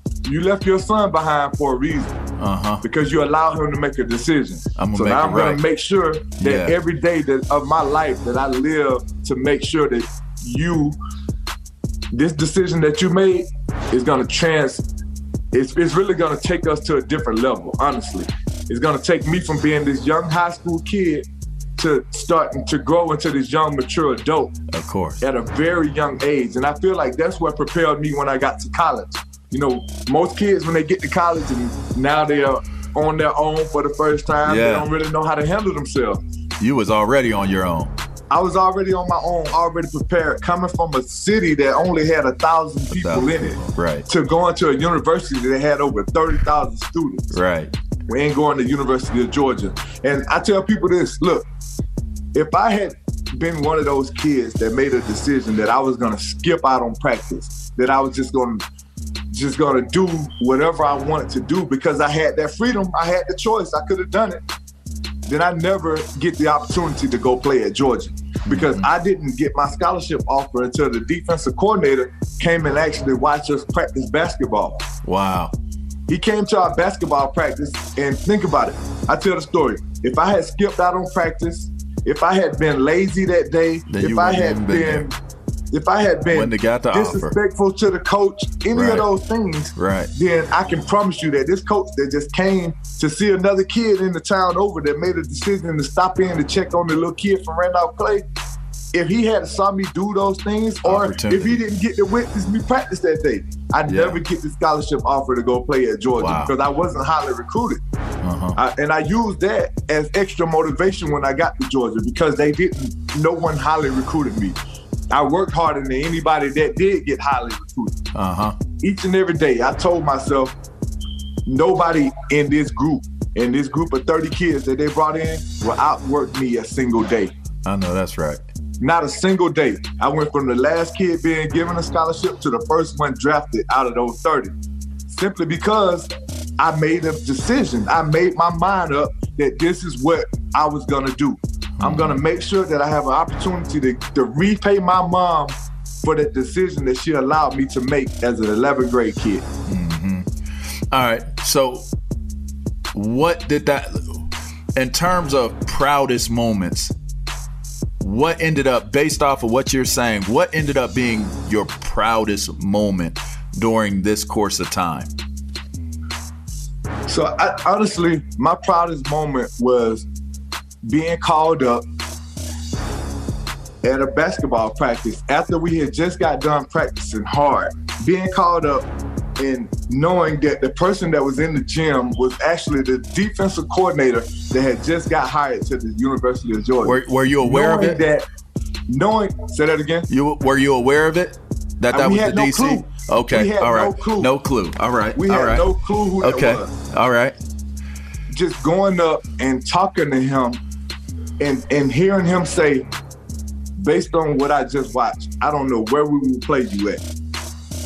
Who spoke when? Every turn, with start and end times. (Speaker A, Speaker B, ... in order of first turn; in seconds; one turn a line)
Speaker A: 0.2-2.1
Speaker B: 2.4-2.8
Speaker A: 2.8-11.0
Speaker B: 4.8-5.6
Speaker B: 6.4-6.7
Speaker A: 12.1-14.8
Speaker A: 15.5-21.2
Speaker A: 21.8-24.5
Speaker B: 24.7-25.2
Speaker A: 25.2-36.2
Speaker B: 34.4-34.9
Speaker B: 36.6-37.9
Speaker A: 38.3-47.4
Speaker B: 42.9-44.0
Speaker B: 47.3-47.7
Speaker A: 48.1-51.4
Speaker A: 52.3-58.6
Speaker A: 59.3-64.4
Speaker A: 65.2-74.8
Speaker B: 68.5-68.9
Speaker B: 75.0-75.5
Speaker A: 76.1-85.2
Speaker B: 83.9-85.0
Speaker A: 85.7-98.2
Speaker B: 86.3-87.3
Speaker B: 88.7-89.0
Speaker B: 89.7-90.1
Speaker A: 98.9-107.8
Speaker B: 100.8-101.6
Speaker B: 103.9-104.2
Speaker B: 106.2-106.5
Speaker B: 108.2-108.6
Speaker A: 108.5-114.5
Speaker A: 115.1-118.0
Speaker B: 118.1-118.6
Speaker A: 118.7-120.5
Speaker A: 121.5-127.3
Speaker B: 127.6-128.4
Speaker A: 128.8-134.5
Speaker A: 135.1-149.4
Speaker B: 141.8-142.2
Speaker B: 149.7-150.3
Speaker B: 150.9-151.8
Speaker B: 152.9-154.2
Speaker B: 154.7-156.9
Speaker B: 158.0-165.1
Speaker A: 167.1-170.1
Speaker A: 170.9-171.8
Speaker A: 173.8-178.8
Speaker A: 179.4-188.2
Speaker B: 186.8-188.0
Speaker A: 188.9-190.1
Speaker B: 190.1-195.7
Speaker A: 191.9-194.3
Speaker A: 195.1-196.7
Speaker B: 196.2-197.3
Speaker A: 198.3-200.6
Speaker A: 201.4-202.9
Speaker A: 203.8-207.0